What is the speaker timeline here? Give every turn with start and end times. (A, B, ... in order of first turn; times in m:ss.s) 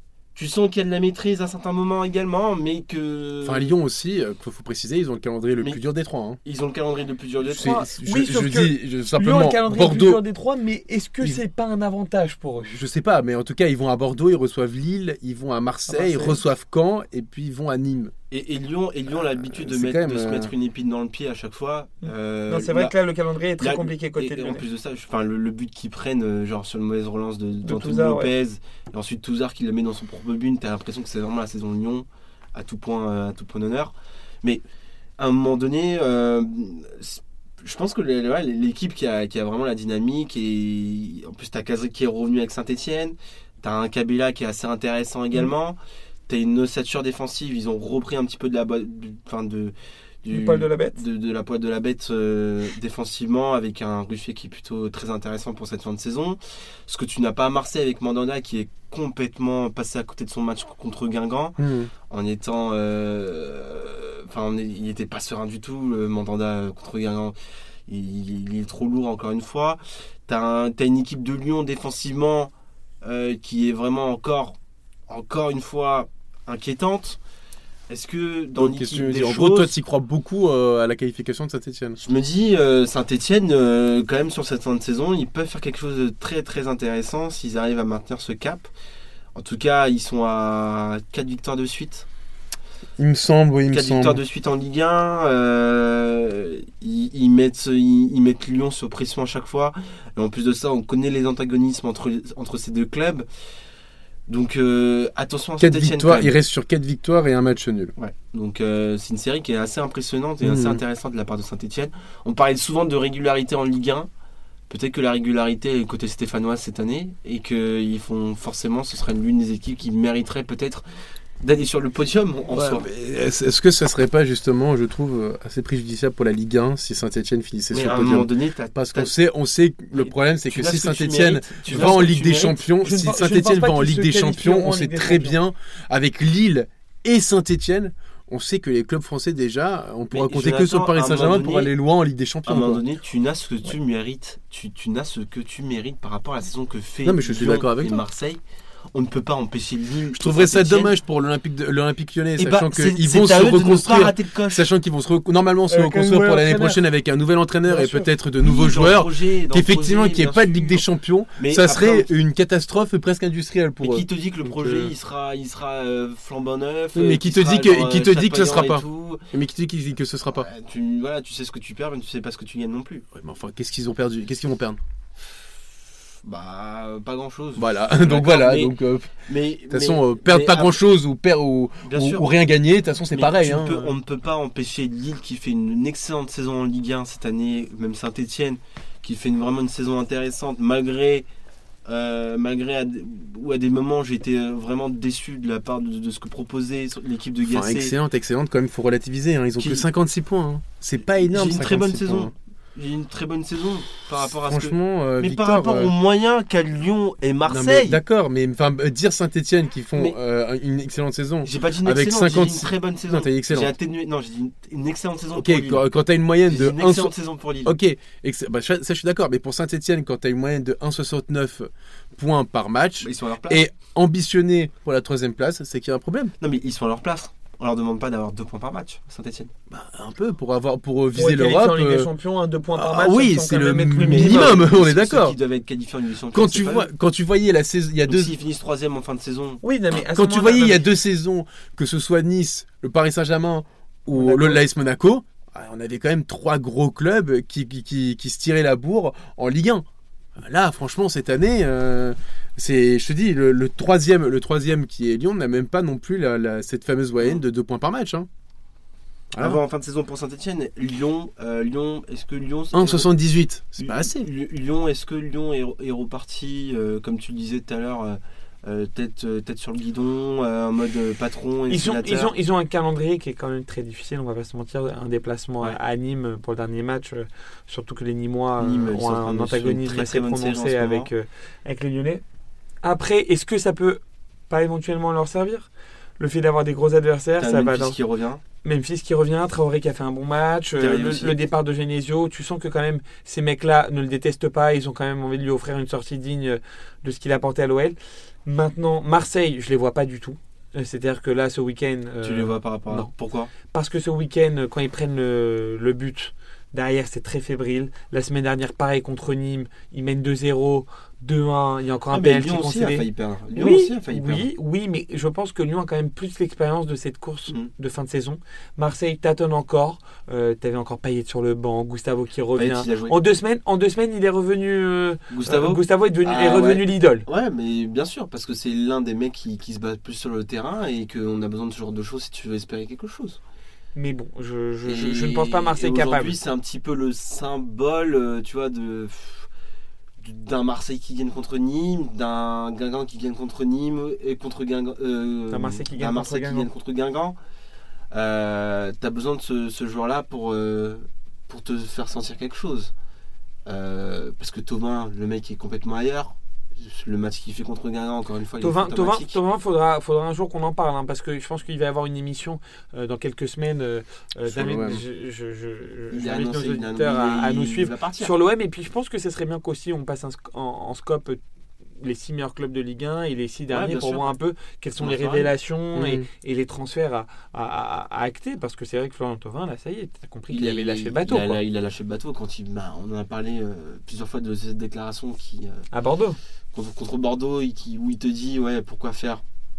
0:00.4-0:03.7 A
0:03.4-0:06.4 B
0:06.4-0:07.9 A
0:07.4-0:12.8 C
0:07.5-0:10.2 B
0:12.7-0:18.1 B
0:15.9-0:16.4 C
0:18.3-0:23.0 A
0:19.4-0:20.5 B
0:22.0-0:24.6 C
0:23.6-0:34.6 A
0:27.6-0:28.3 C
0:35.2-1:01.6 A
0:50.3-0:51.0 C
1:01.6-1:01.9 B
1:02.1-1:07.4 A
1:07.9-1:14.6 A
1:15.1-1:17.2 A
1:17.9-1:19.7 A
1:18.6-1:22.0 B
1:22.0-1:28.7 A
1:29.4-1:32.1 A
1:33.0-1:34.2 B
1:33.7-1:43.3 A
1:44.3-1:46.4 A
1:45.6-1:47.9 B
1:48.0-1:54.1 A
1:50.4-1:50.8 B
1:54.7-2:00.8 A
2:01.4-2:02.9 A
2:02.5-2:22.8 B
2:07.7-2:09.1 A
2:09.9-2:12.6 A
2:11.7-2:12.1 C
2:12.8-2:15.4 C
2:20.1-2:21.7 A
2:22.5-2:28.4 A
2:27.0-2:28.1 B
2:28.9-2:31.0 A
2:30.1-2:44.9 B
2:32.4-2:34.7 A
2:35.7-2:36.8 C
2:37.6-2:38.1 C
2:38.4-2:40.8 A
2:41.4-2:42.1 A
2:43.8-2:49.2 A
2:47.0-2:50.5 B
2:50.3-2:53.0 A
2:53.1-2:54.8 B
2:56.2-3:00.8 A
2:57.6-2:59.1 B
2:59.7-3:03.9 B
3:01.9-3:02.3 A
3:03.1-3:11.3 A
3:11.9-3:17.9 A
3:17.4-3:22.3 B
3:19.6-3:19.9 A
3:21.2-3:28.0 A
3:24.1-3:25.9 B
3:27.5-3:33.7 B
3:31.4-3:35.9 A
3:35.3-3:46.3 B
3:36.4-3:37.8 A
3:43.0-3:43.6 A
3:46.4-3:49.5 A
3:49.7-3:52.1 B
3:51.1-3:54.6 C
3:52.7-3:55.4 B
3:54.0-3:56.9 A
3:56.3-3:58.3 B
3:58.1-3:59.6 A
3:59.6-4:00.9 C
4:00.1-4:09.8 B
4:04.1-4:04.6 C
4:10.4-4:18.3 B
4:19.3-4:19.6 B
4:19.4-4:23.1 A
4:22.7-4:24.3 B
4:23.8-4:32.3 A
4:31.7-4:42.2 C
4:38.6-4:41.1 A
4:42.8-4:48.0 C
4:47.4-4:48.4 A
4:48.6-5:03.1 C
4:50.8-4:51.5 A
5:02.2-5:03.5 A
5:03.7-5:27.3 C
5:12.1-5:14.5 A
5:22.6-5:23.2 A
5:25.3-5:33.4 A
5:34.0-5:36.4 C
5:34.9-5:39.5 A
5:40.2-5:47.4 A
5:45.5-5:46.7 C
5:48.1-5:52.9 A
5:53.7-5:59.4 A
5:58.6-6:11.4 C
6:04.5-6:05.0 B
6:06.1-6:08.3 A
6:12.0-6:21.6 C
6:13.7-6:14.3 A
6:15.0-6:15.5 A
6:16.0-6:16.3 B
6:20.5-6:25.9 A
6:25.9-6:26.4 C
6:26.7-6:29.4 A